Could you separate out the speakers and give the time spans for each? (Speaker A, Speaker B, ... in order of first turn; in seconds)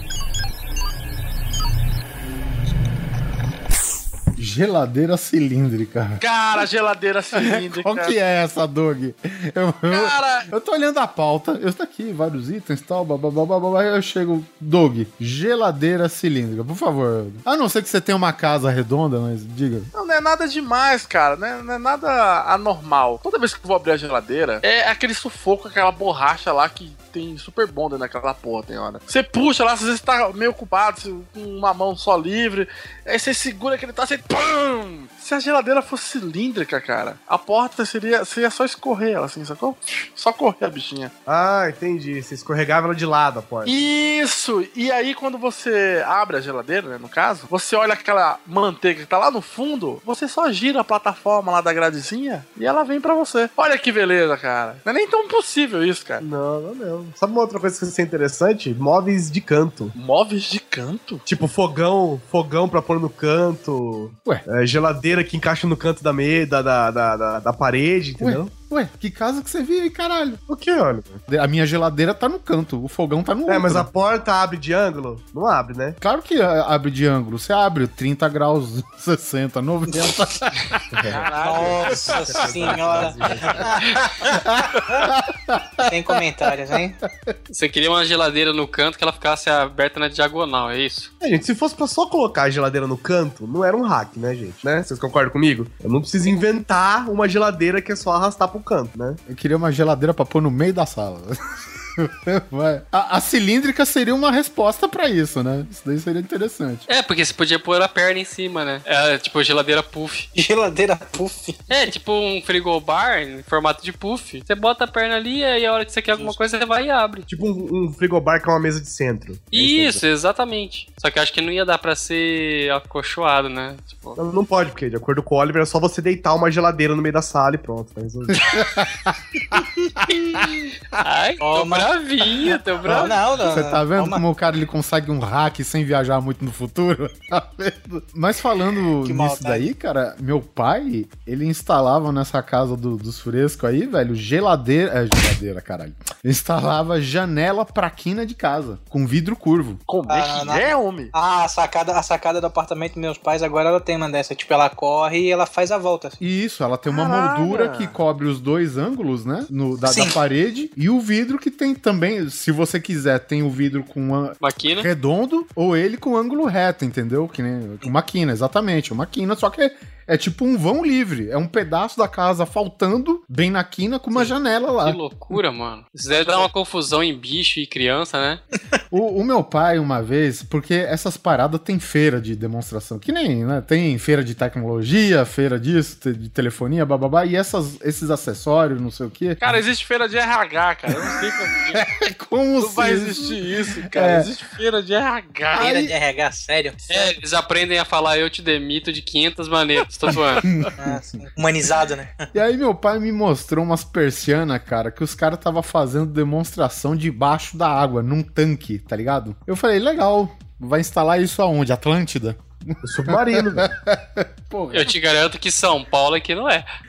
Speaker A: 4.4-6.6, 7.3-19.9, 68.2-70.4, 71.3-73.9, 76.0-81.1, 84.2-86.2, 87.0-87.3, 99.3-101.3, 102.0-106.8, 128.3-130.5, 132.9-149.8, 156.2-175.3, 178.9-189.6, 190.9-191.2, 191.7-194.3, 195.5-195.9, 200.4-201.2, 202.3-214.9
Speaker B: 6.2-8.1, 9.9-10.5, 19.9-41.1, 43.6-56.2, 59.9-61.2, 81.1-83.1, 116.1-116.4, 149.9-151.1, 156.8-157.9, 176.1-176.5, 189.4-191.8, 192.6-195.7
Speaker C: 41.2-43.8, 56.2-59.9, 61.2-68.5, 70.5-71.2, 73.5-76.0, 80.9-81.2, 81.8-83.8, 91.2-99.2, 117.3-120.0, 124.2-128.4, 212.8-213.7
Speaker D: 81.4-83.8, 85.9-87.0, 110.3-111.6, 131.4-131.9, 132.9-134.2, 139.0-139.7, 150.1-156.2, 159.8-160.2, 195.6-197.2, 200.8-202.3
Speaker E: 87.5-91.1, 106.9-110.3, 111.7-117.2, 119.5-124.2, 131.0-133.2, 164.4-164.9, 174.8-178.4, 196.9-200.4, 214.7-216.7